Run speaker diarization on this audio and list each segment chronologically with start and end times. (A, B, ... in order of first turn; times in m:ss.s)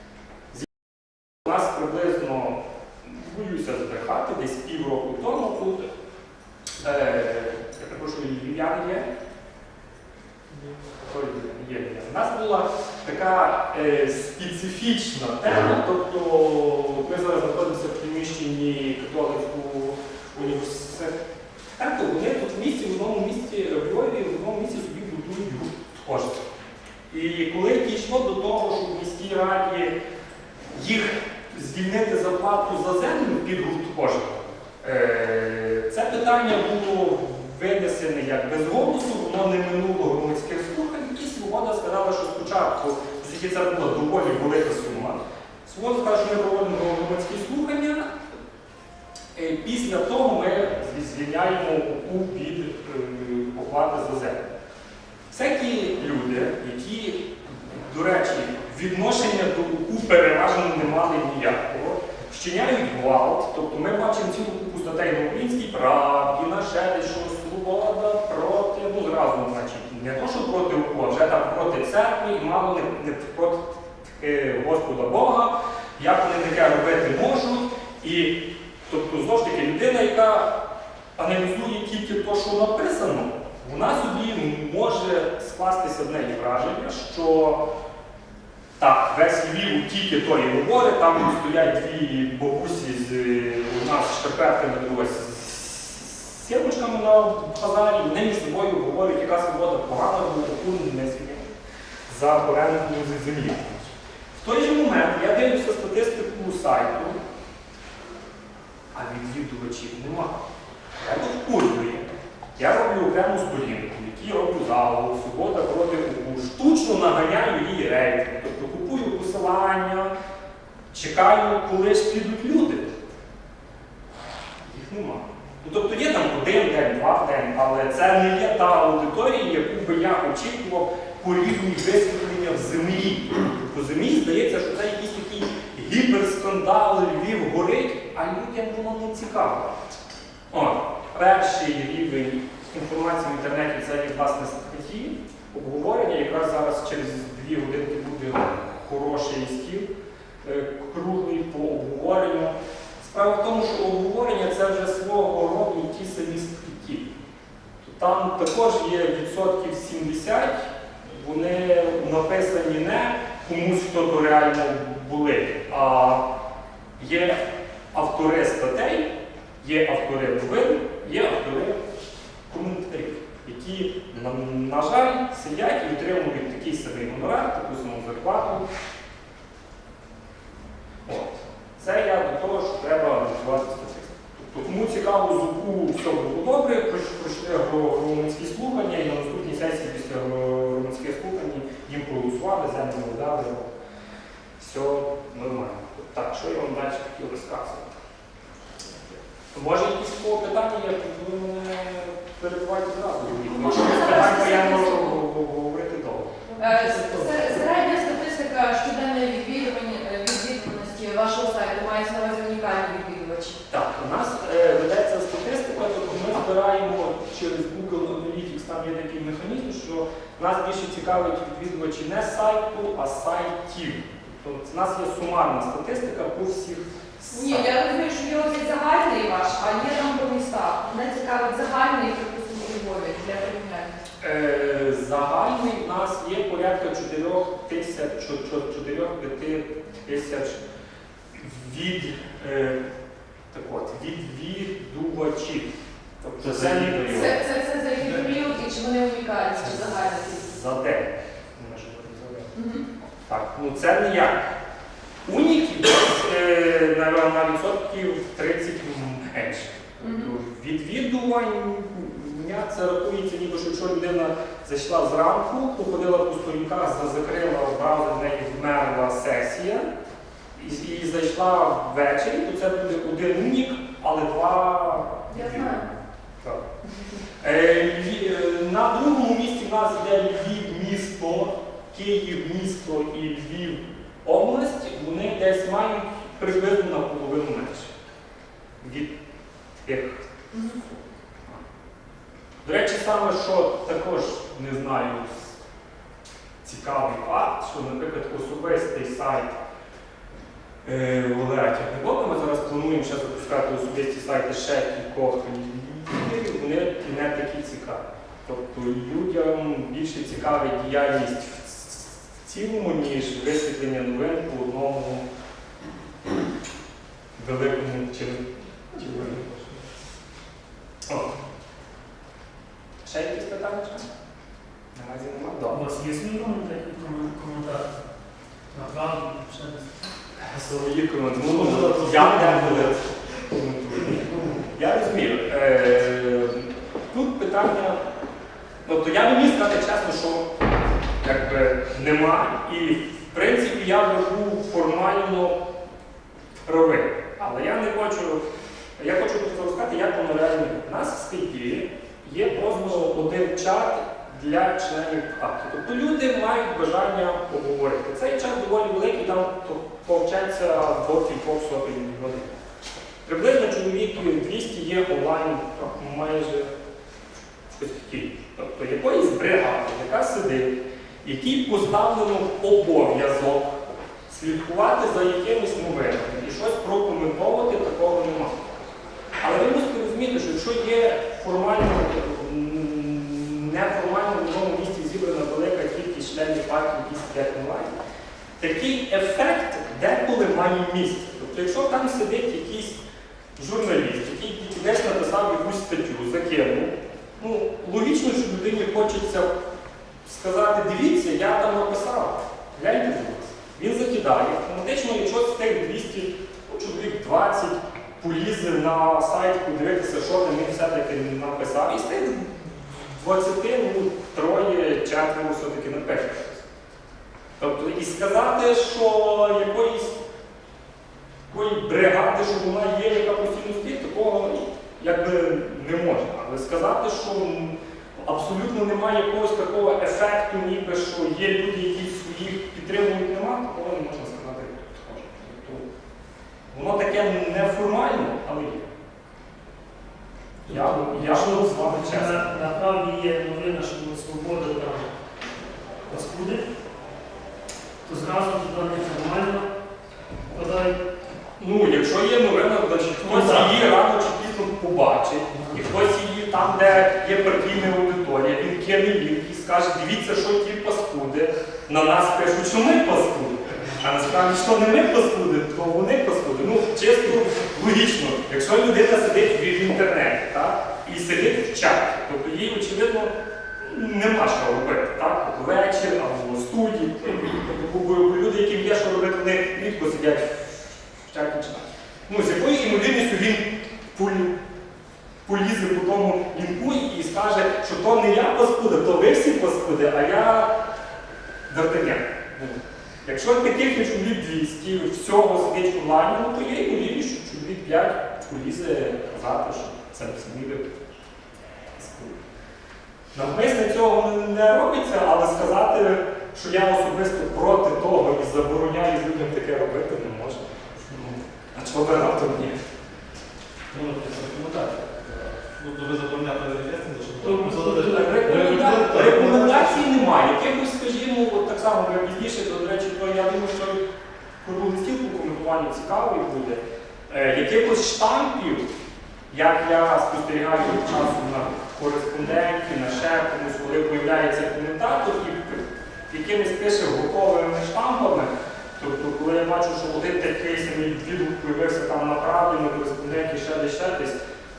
0:00.5-0:05.9 A
0:06.8-0:09.1 A
0:11.0-0:21.1 A
0:21.8-0:26.4 A
0:27.1-0:29.9 A
0:30.7-0:48.1 A
0:49.3-0:54.5 A
0:55.3-1:20.5 A
1:21.2-1:27.6 A
1:28.8-1:41.5 A
1:42.1-1:47.2 A
1:48.9-1:50.4 A
1:51.0-2:00.1 A
2:00.9-2:03.0 A
2:04.6-2:19.7 A
2:20.5-2:29.9 A
2:30.4-2:37.1 A
2:37.8-2:46.2 A
2:47.0-2:47.4 A
2:47.9-2:51.8 A
2:52.5-2:58.6 A
3:01.0-3:13.7 A
3:14.6-3:17.9 A
3:19.5-3:27.4 A
3:23.5-3:25.2 B
3:26.6-3:33.6 B
3:33.7-3:47.7 A
3:47.3-3:53.9 B
3:54.2-4:00.6 A
4:01.3-4:02.8 A
4:03.5-4:07.4 A
4:06.4-4:06.9 C
4:06.7-4:10.5 B
4:08.0-4:08.3 C
4:10.3-4:12.5 A
4:12.5-4:12.8 B
4:13.2-4:14.5 A
4:15.2-4:29.9 A
4:20.0-4:20.3 B
4:30.5-4:36.6 A
4:35.3-4:35.8 B
4:37.4-4:47.9 A
4:48.8-4:49.1 A
4:49.8-4:50.9 A
4:52.6-4:55.5 A
4:56.6-4:59.6 A
5:00.8-5:15.2 A
5:17.4-5:19.4 A
5:19.0-5:19.8 C
5:23.0-5:24.1 A
5:24.9-5:25.8 A
5:25.7-5:27.9 D
5:28.7-5:30.0 D
5:30.4-5:38.0 A
5:31.4-5:33.0 C
5:38.8-5:40.5 A
5:41.2-5:45.6 A
5:46.6-5:48.4 A
5:49.0-6:02.6 A
6:03.2-6:06.7 A
6:07.7-6:13.8 A
6:14.3-6:18.8 A
6:19.4-6:27.9 A
6:28.6-6:33.0 A
6:33.6-6:39.5 A
6:40.2-6:56.6 A
6:57.6-7:00.2 A
7:01.5-7:15.8 A
7:16.7-7:18.9 A
7:20.6-7:25.1 D
7:20.7-7:22.5 A
7:26.1-7:26.6 D
7:28.0-7:29.7 D
7:30.5-7:31.0 D
7:31.6-8:04.6 A
7:33.2-7:33.8 D
8:05.4-8:10.7 A
8:11.7-8:21.0 A
8:22.0-8:22.4 A
8:23.3-8:32.8 A
8:33.9-8:40.1 C
8:37.4-8:38.5 D
8:38.1-8:44.0 A
8:44.6-8:48.9 A
8:49.5-9:04.4 A